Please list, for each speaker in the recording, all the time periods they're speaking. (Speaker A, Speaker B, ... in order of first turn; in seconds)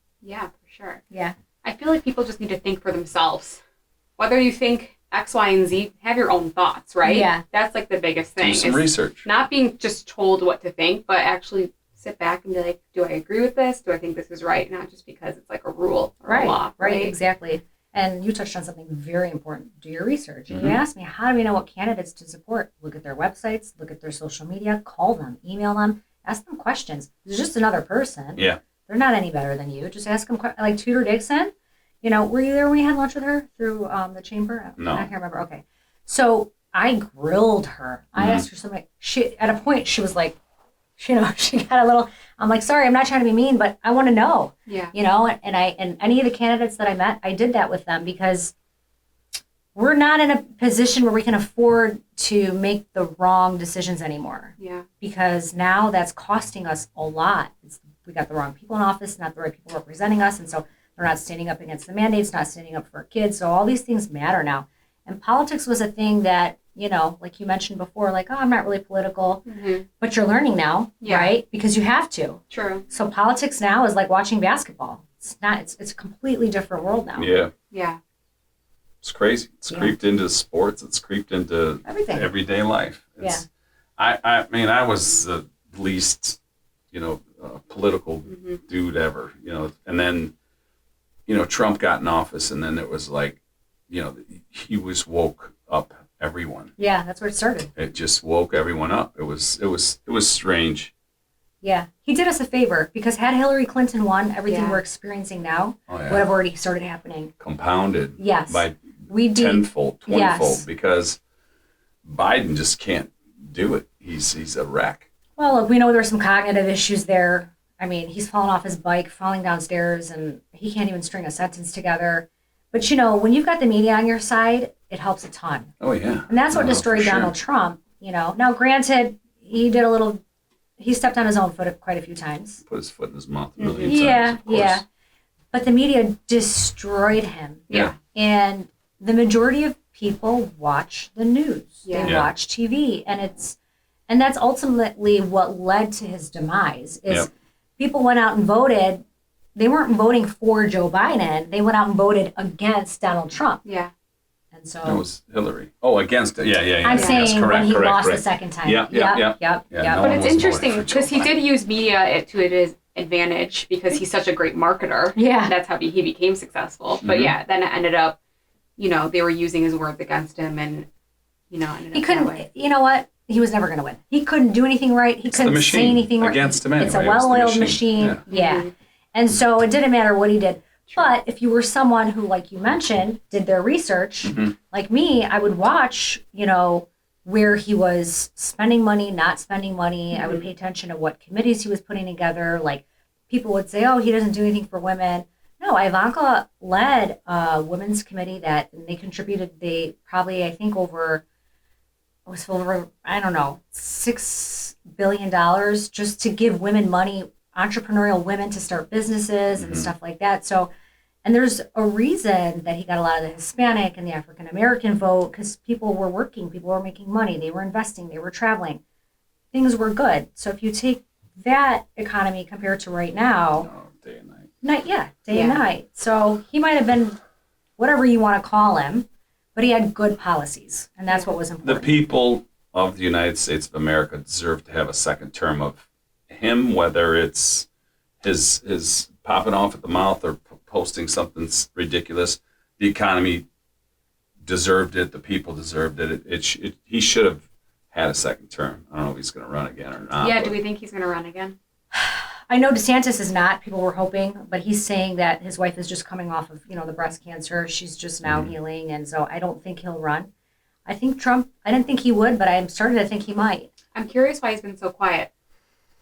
Speaker A: 0.2-1.0, 1.6-3.6, 4.2-17.1, 44.7-44.9, 54.6-54.9, 69.5-69.9, 71.0-71.3, 72.5-72.8, 77.7-78.0, 88.3-88.6, 104.5-104.8, 133.6-134.0, 137.7-138.0, 141.8-142.2, 153.6-153.9, 156.9-157.3, 160.0-168.2, 168.8-170.9, 171.5-172.5, 178.3-178.7, 190.1-190.5, 225.3-225.6, 250.2-251.6, 263.9-265.3
Speaker B: 7.0-7.4, 16.2-40.4, 41.0-48.5, 49.8-69.4, 70.0-77.4, 79.7-80.0, 81.8-82.3, 96.8-97.7, 101.6-107.3, 108.2-110.7, 115.4-125.7, 126.3-130.2, 130.8-132.6, 133.8-134.8, 135.5-143.6, 144.1-149.0, 149.6-153.6, 154.5-155.0, 156.8-160.2, 165.2-165.5, 171.9-201.2, 202.3-210.7, 211.2-218.8, 219.5-223.7, 224.6-227.2, 227.8-232.0, 251.9-260.3, 260.9-263.7
Speaker C: 8.4-9.3, 20.5-20.8, 34.8-35.1, 38.2-38.5, 77.2-77.5, 79.0-83.4, 84.0-86.4, 86.9-90.3, 91.3-96.7, 97.8-100.9, 105.9-106.3, 107.4-111.2, 112.0-115.1, 125.8-127.3, 132.7-134.8, 137.7-138.0, 142.0-142.3, 154.8-161.4, 167.0-167.3, 175.3-178.2, 184.2-184.6, 209.6-209.9, 223.6-224.5, 231.6-237.7, 238.2-243.5, 244.4-250.6, 258.2-258.6